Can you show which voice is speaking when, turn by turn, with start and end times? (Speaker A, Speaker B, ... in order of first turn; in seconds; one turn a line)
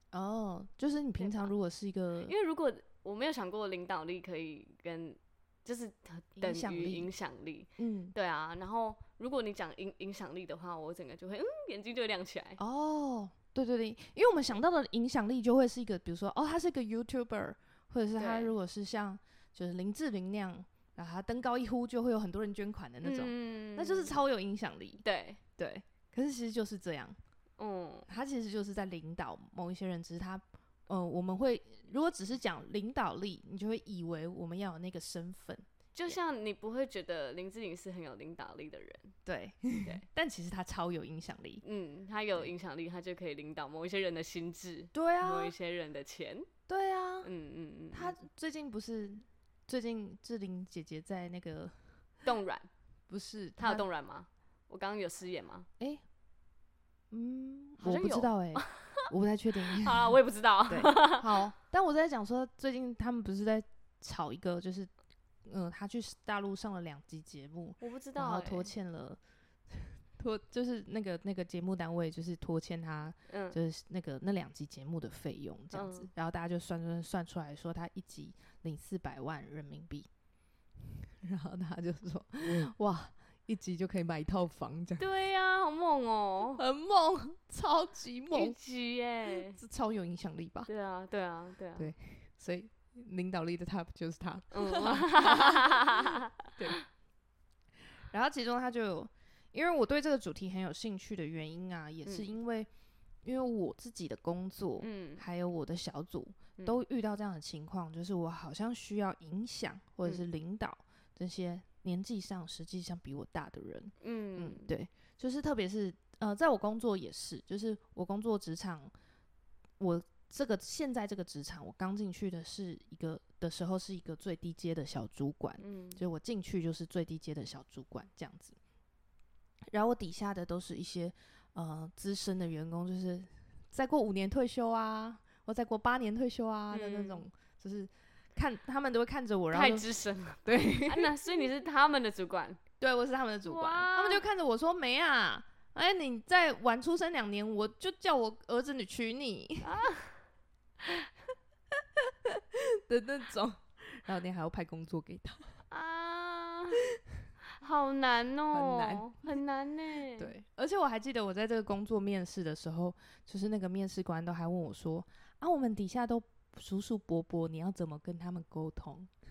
Speaker A: 0.1-2.3
Speaker B: 1.2-1.5
Speaker B: 2.3-12.6
Speaker A: 6.4-7.1
Speaker A: 7.8-8.2
Speaker A: 12.6-25.0
Speaker B: 18.2-18.5
Speaker B: 23.0-24.2
Speaker B: 25.0-25.4
Speaker A: 25.6-27.2
Speaker B: 27.6-28.1
Speaker A: 28.1-36.2
Speaker B: 36.0-39.2
Speaker A: 39.3-41.6
Speaker B: 41.6-46.5
Speaker A: 44.9-45.5
Speaker A: 46.7-47.3
Speaker B: 47.2-48.2
Speaker A: 47.9-51.8
Speaker B: 52.2-52.7
Speaker A: 53.1-53.9
Speaker B: 53.6-55.7
Speaker A: 57.1-60.2
Speaker B: 57.8-59.1
Speaker B: 59.6-61.4
Speaker A: 60.7-64.9
Speaker A: 65.5-80.1
Speaker B: 67.8-68.7
Speaker B: 73.3-73.6
Speaker B: 75.7-76.1
Speaker A: 81.2-85.1
Speaker B: 85.0-86.6
Speaker A: 86.6-88.6
Speaker B: 88.3-89.6
Speaker A: 89.3-90.7
Speaker B: 90.7-91.9
Speaker A: 91.8-96.8
Speaker B: 94.5-96.8
Speaker A: 98.1-102.7
Speaker B: 102.0-102.3
Speaker A: 103.2-118.9
Speaker B: 104.8-105.2
Speaker B: 114.0-114.8
Speaker A: 119.8-128.6
Speaker B: 125.6-126.0
Speaker A: 129.7-139.9
Speaker B: 136.7-137.2
Speaker B: 139.5-142.6
Speaker A: 140.4-141.1
Speaker A: 142.8-149.8
Speaker B: 143.4-144.2
Speaker B: 149.6-150.2
Speaker A: 152.0-155.5
Speaker B: 155.7-156.8
Speaker B: 157.6-160.3
Speaker A: 158.5-159.4
Speaker A: 160.2-169.1